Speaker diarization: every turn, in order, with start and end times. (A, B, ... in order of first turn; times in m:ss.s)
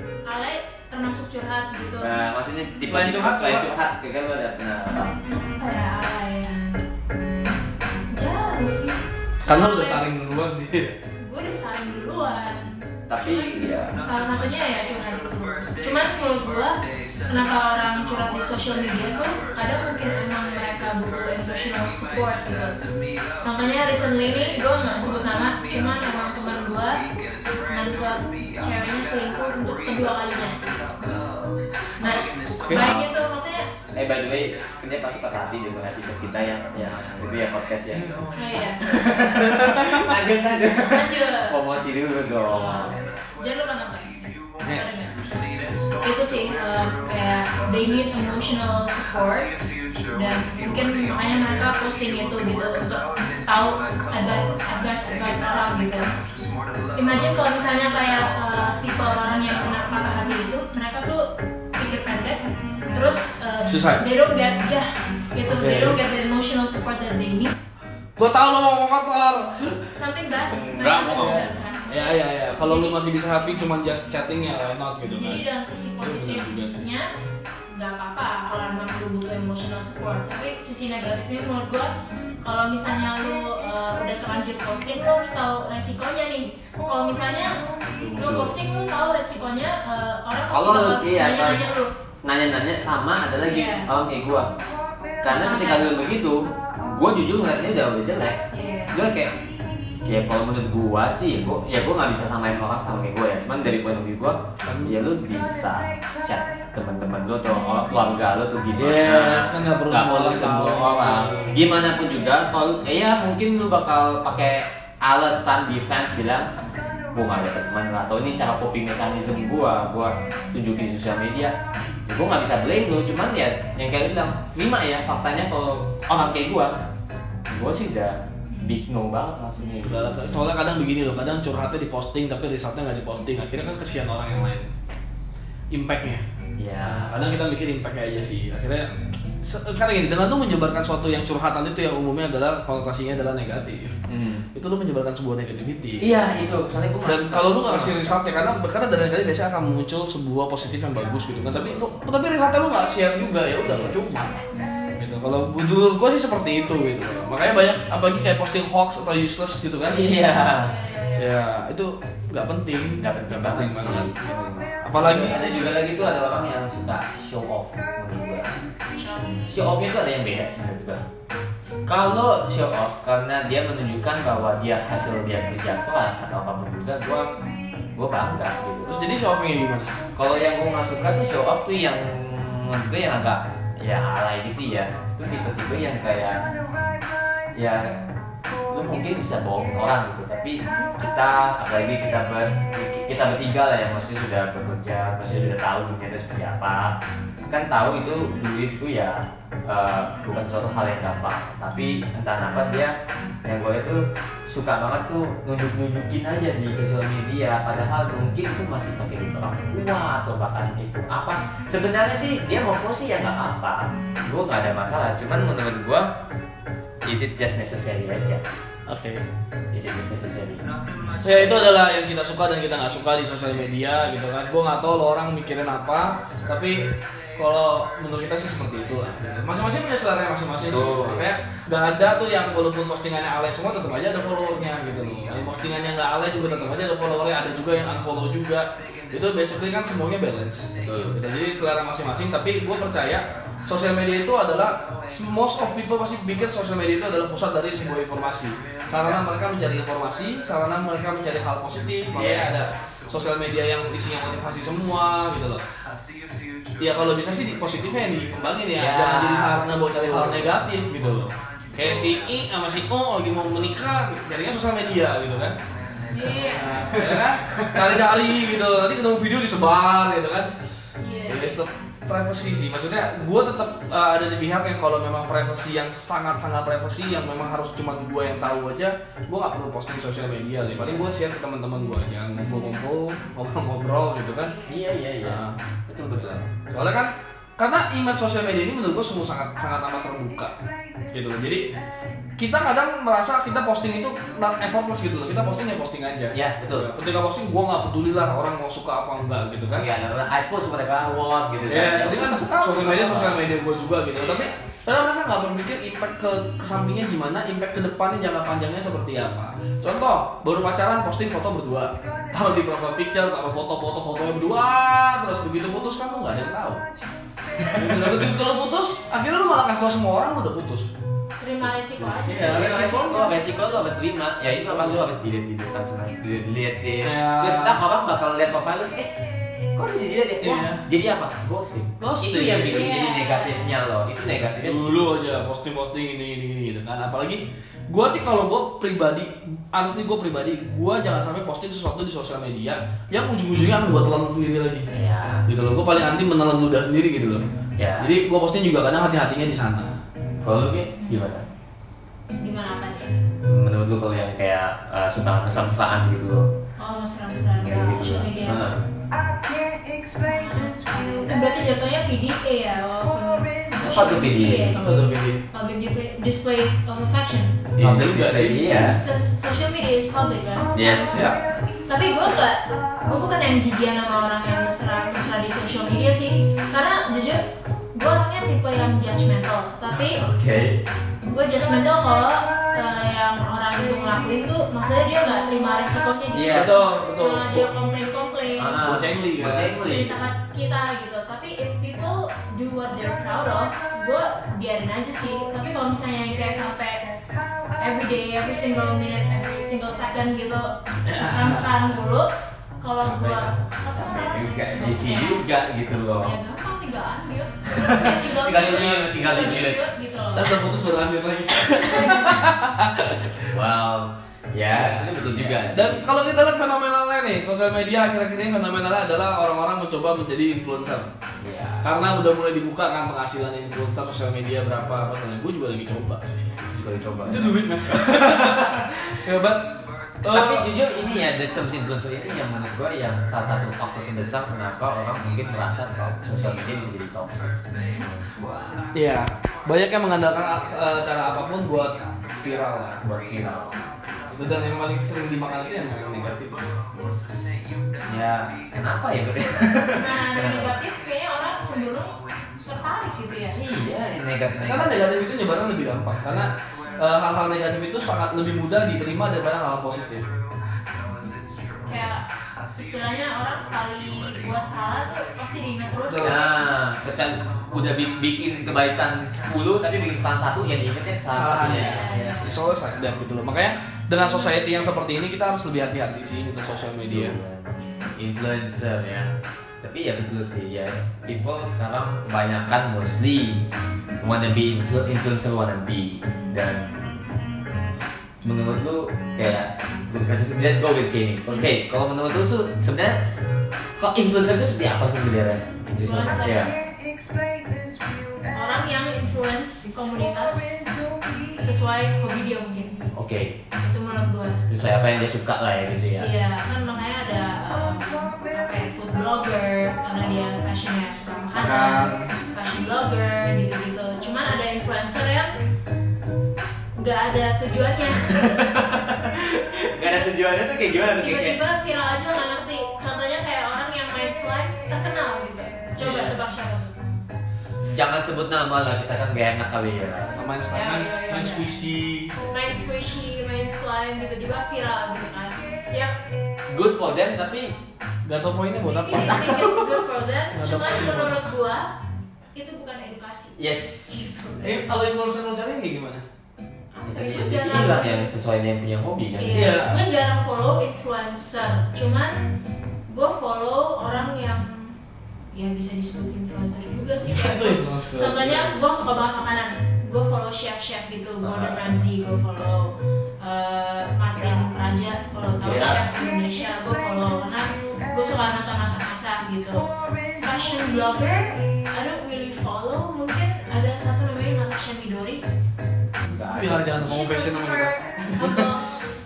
0:00.2-0:02.1 A
0:02.0-0:05.2 B
0:02.9-0:03.7 C
0:05.0-0:06.6 A
0:08.1-0:10.0 A
0:09.4-0:10.9 C
0:11.2-0:22.8 A
0:13.1-0:14.0 B
0:23.4-0:27.0 A
0:24.3-0:24.6 B
0:27.7-0:30.7 A
0:32.0-0:33.7 A
0:32.6-0:32.9 C
0:32.7-0:33.1 B
0:33.9-0:38.0 B
0:38.3-0:38.8 A
0:38.9-0:43.0 B
0:39.0-0:40.0 C
0:40.8-0:41.6 A
0:42.5-0:45.3 A
0:46.0-0:49.5 A
0:50.1-0:56.1 A
0:56.9-1:07.5 A
1:03.6-1:04.0 C
1:05.5-1:06.0 C
1:08.2-1:09.9 C
1:09.9-1:13.6 A
1:10.5-1:11.5 B
1:11.1-1:15.4 C
1:15.1-1:17.1 A
1:16.0-1:16.8 C
1:17.7-1:27.6 A
1:27.8-1:28.4 C
1:28.1-1:31.9 A
1:28.2-1:28.6 B
1:30.5-1:31.7 B
1:32.2-1:34.5 B
1:33.4-1:33.9 A
1:35.2-1:38.4 B
1:35.2-1:36.0 A
1:38.5-1:39.0 A
1:38.9-1:39.3 B
1:40.1-1:56.5 B
1:44.6-1:45.0 C
1:48.8-1:51.6 C
1:57.1-2:01.5 B
2:02.1-2:06.8 B
2:07.5-2:10.2 B
2:08.5-2:08.8 A
2:09.8-2:14.7 C
2:15.7-2:16.2 C
2:16.6-2:17.3 B
2:16.8-2:24.0 C
2:24.1-2:24.4 B
2:24.5-2:26.0 C
2:26.0-2:28.2 B
2:27.0-2:34.4 C
2:33.6-2:34.0 B
2:34.5-2:34.9 A
2:35.0-2:40.1 C
2:39.8-2:40.7 B
2:40.4-2:41.3 A
2:41.2-2:45.4 C
2:43.0-2:44.1 B
2:44.9-2:48.5 B
2:45.2-2:45.6 A
2:48.9-2:49.5 A
2:49.5-2:51.0 B
2:51.9-2:57.2 B
2:57.9-2:59.0 B
2:58.9-3:00.0 C
3:00.2-3:06.4 B
3:07.5-3:07.9 B
3:08.7-3:17.0 B
3:17.5-3:36.1 B
3:37.0-3:38.4 B
3:38.9-3:39.2 C
3:39.7-3:40.6 B
3:41.2-4:15.6 C
3:41.2-3:41.7 B
3:50.6-3:51.3 B
4:00.8-4:01.2 B
4:12.1-4:12.6 B
4:16.8-4:25.6 C
4:18.7-4:20.5 B
4:21.8-4:22.3 B
4:26.1-4:26.9 A
4:26.4-4:30.5 C
4:31.0-4:31.6 A
4:31.2-4:44.5 C
4:40.8-4:41.1 B
4:42.4-4:42.8 A
4:44.4-4:44.9 A
4:44.6-4:46.4 B
4:45.2-4:45.6 C
4:46.2-4:50.5 C
4:51.1-4:51.7 C
4:52.4-4:59.9 C
4:56.3-4:56.9 B
4:59.7-5:03.4 B
5:01.7-5:16.8 C
5:17.6-5:20.9 C
5:21.4-5:23.0 A
5:21.6-5:29.2 B
5:22.2-5:23.4 C
5:24.4-5:25.1 C
5:27.0-5:27.8 C
5:29.7-5:35.2 B
5:30.4-5:30.8 C
5:32.0-5:32.9 C
5:32.7-5:33.8 A
5:34.2-5:44.9 C
5:44.9-5:45.4 B
5:45.5-5:47.4 C
5:47.8-5:48.1 B
5:48.0-5:50.0 C
5:50.4-5:51.4 B
5:51.0-5:51.4 A
5:52.4-5:53.1 A
5:53.4-5:56.5 B
5:56.8-5:58.7 A
5:57.6-5:58.8 B
6:00.2-6:04.9 A
6:03.8-6:04.8 B
6:04.7-6:05.4 C
6:05.5-6:07.6 A
6:07.8-6:08.6 C
6:07.8-6:09.0 B
6:08.6-6:11.3 A
6:10.7-6:11.3 B
6:11.1-6:11.4 C
6:11.9-6:20.2 A
6:19.9-6:20.8 B
6:21.2-6:28.9 A
6:26.3-6:26.9 B
6:26.5-6:27.7 C
6:28.6-6:30.2 B
6:28.8-6:29.8 C
6:29.7-6:37.1 A
6:37.8-6:42.3 A
6:41.1-6:41.7 C
6:42.8-6:45.4 A
6:43.0-6:46.4 B
6:46.2-6:50.6 A
6:47.8-6:49.8 B
6:48.6-6:49.0 C
6:50.3-6:53.5 C
6:53.5-6:56.1 B
6:54.7-7:01.1 C
7:01.4-7:02.0 B
7:01.8-7:06.6 C
7:06.7-7:08.8 B
7:07.2-7:10.7 C
7:10.3-7:18.8 B
7:17.7-7:18.1 A
7:18.9-7:23.0 C
7:23.0-7:23.9 B
7:24.3-7:26.7 C
7:28.1-7:30.8 B
7:29.9-7:33.6 A
7:33.5-7:35.1 B
7:34.6-7:40.3 C
7:41.9-7:46.6 A
7:46.1-7:46.5 C
7:46.2-7:52.0 B
7:51.3-7:57.4 C
7:51.7-7:52.6 A
7:56.9-8:03.6 B
7:57.8-7:58.1 A
8:04.2-8:07.1 B
8:06.3-8:07.0 A
8:08.4-8:13.2 B
8:14.0-8:16.7 B
8:16.0-8:16.7 A
8:18.5-8:20.9 A
8:21.6-8:23.1 A
8:23.1-8:23.6 B
8:23.8-8:24.6 A
8:24.7-8:26.3 B
8:26.2-8:35.5 A
8:31.6-8:32.3 C
8:37.0-8:38.4 A
8:38.3-8:41.6 B
8:41.2-8:46.9 A
8:46.0-8:46.3 C
8:46.0-8:46.3 B
8:47.8-8:50.4 B
8:50.4-8:52.4 C
8:50.7-8:51.7 A
8:52.4-8:56.2 A
8:56.7-8:57.8 B
8:58.2-8:59.8 C
8:58.9-9:01.9 A
8:59.1-8:59.6 B
9:00.5-9:01.5 C
9:02.5-9:04.8 A
9:03.6-9:04.8 B
9:04.6-9:06.2 C
9:06.9-9:08.2 A
9:07.0-9:09.7 B
9:09.4-9:12.5 A
9:09.5-9:10.0 C
9:13.1-9:15.0 A
9:15.5-9:35.4 A
9:17.2-9:18.8 C
9:21.4-9:22.0 B
9:25.6-9:26.0 B
9:36.2-9:37.0 B
9:36.5-9:38.7 C
9:37.0-9:39.1 A